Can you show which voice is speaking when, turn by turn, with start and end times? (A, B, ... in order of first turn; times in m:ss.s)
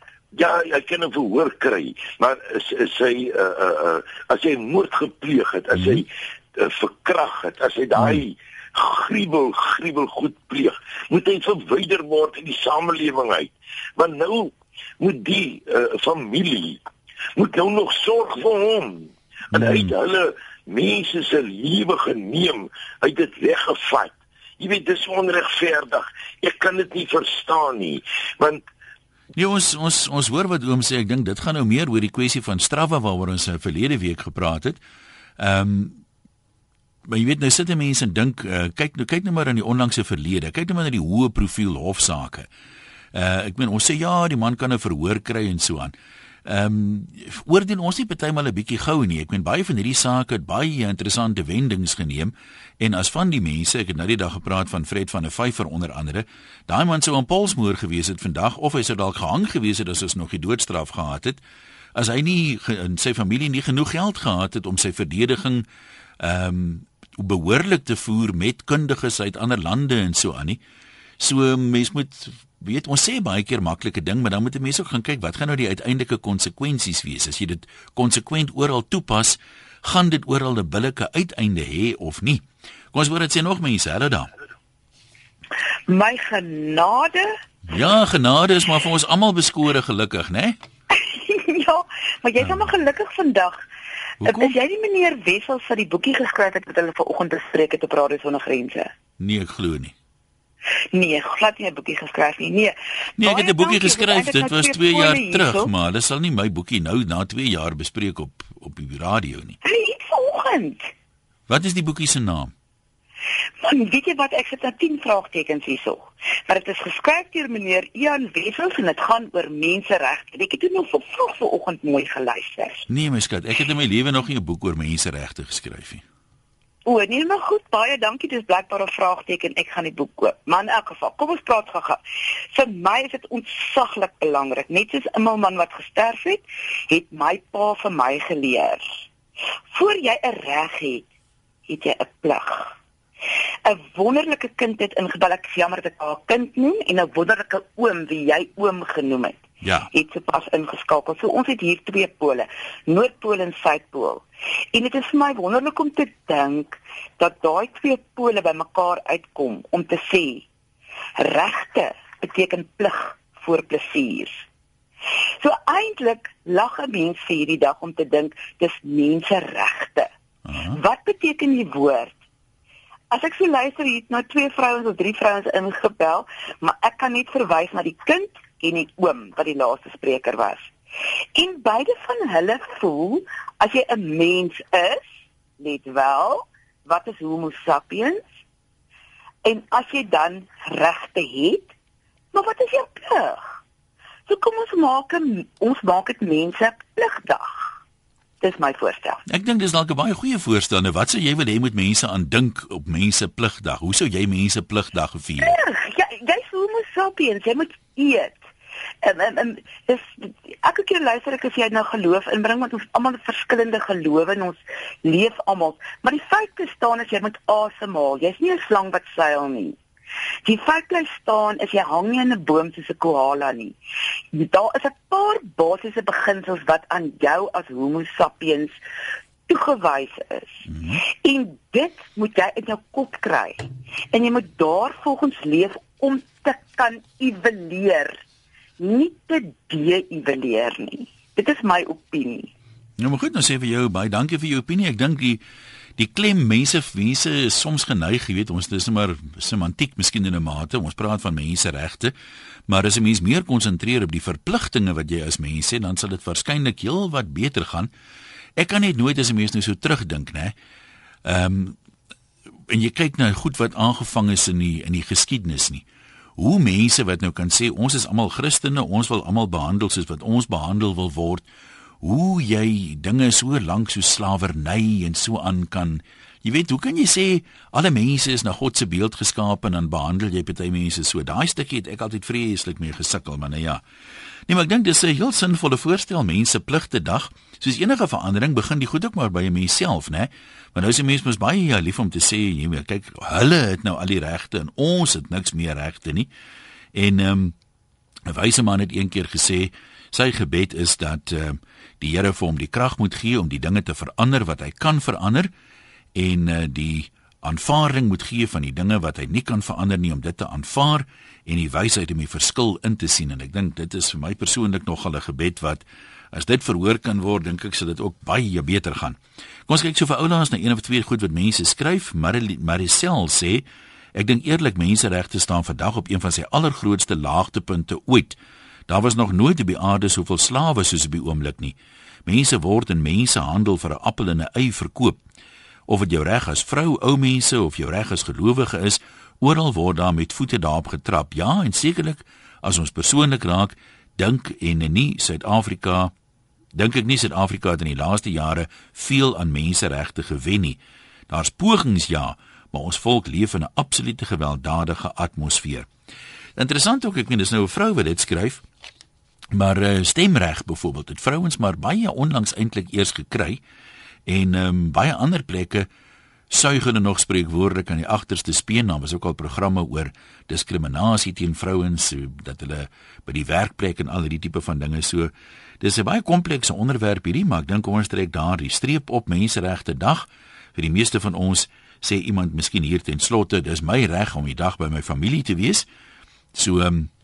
0:00.3-0:16.8 A
0:05.7-0:06.0 B
0:17.4-0:28.6 A
0:19.5-0:19.9 B
0:29.4-0:34.8 B
0:35.4-0:36.0 B
0:37.1-0:42.5 B
0:43.1-0:45.9 B
0:46.4-1:01.4 B
1:01.9-1:05.6 B
1:06.2-1:10.6 B
1:11.2-1:24.3 B
1:25.9-1:27.3 C
1:27.7-1:30.6 B
1:30.9-1:33.6 C
1:34.2-1:34.5 B
1:34.2-1:38.9 C
1:39.2-1:39.9 B
1:40.9-1:45.7 C
1:43.2-1:49.6 B
1:49.6-1:50.9 C
1:51.5-1:52.5 B
1:53.6-2:02.9 C
2:02.9-2:06.0 B
2:06.8-2:12.0 C
2:12.5-2:19.0 C
2:19.7-2:21.0 C
2:21.7-2:22.7 C
2:23.6-2:40.4 C
2:29.6-2:29.9 B
2:41.2-2:44.4 C
2:45.4-2:50.1 C
2:50.5-2:50.8 B
2:50.7-2:52.2 C
2:53.1-3:00.7 C
3:01.3-3:05.1 C
3:05.6-3:08.2 C
3:09.4-3:11.7 C
3:12.3-3:13.4 C
3:14.3-3:17.7 C
3:18.4-3:19.2 C
3:19.3-3:25.6 B
3:25.4-3:28.4 C
3:29.0-3:39.8 C
3:40.4-3:43.8 C
3:44.3-3:48.8 C
3:49.5-3:50.7 C
3:50.7-3:51.0 B
3:51.2-3:58.2 C
3:58.8-4:02.5 C
4:03.0-4:05.4 B
4:06.0-4:12.1 B
4:12.7-4:17.9 B
4:18.6-4:20.5 B
4:21.2-4:21.8 B
4:22.7-4:25.8 B
4:26.4-4:31.4 B
4:32.0-4:43.8 B
4:44.5-4:56.3 B
4:56.9-4:57.5 B
4:58.3-5:05.5 B
5:06.1-5:28.4 B
5:28.9-5:35.2 B
5:35.9-5:46.1 B
5:46.7-5:55.9 B
5:56.6-5:58.6 B
5:59.5-6:03.6 B
6:04.3-6:05.9 B
6:06.5-6:25.9 B
6:26.5-6:27.1 B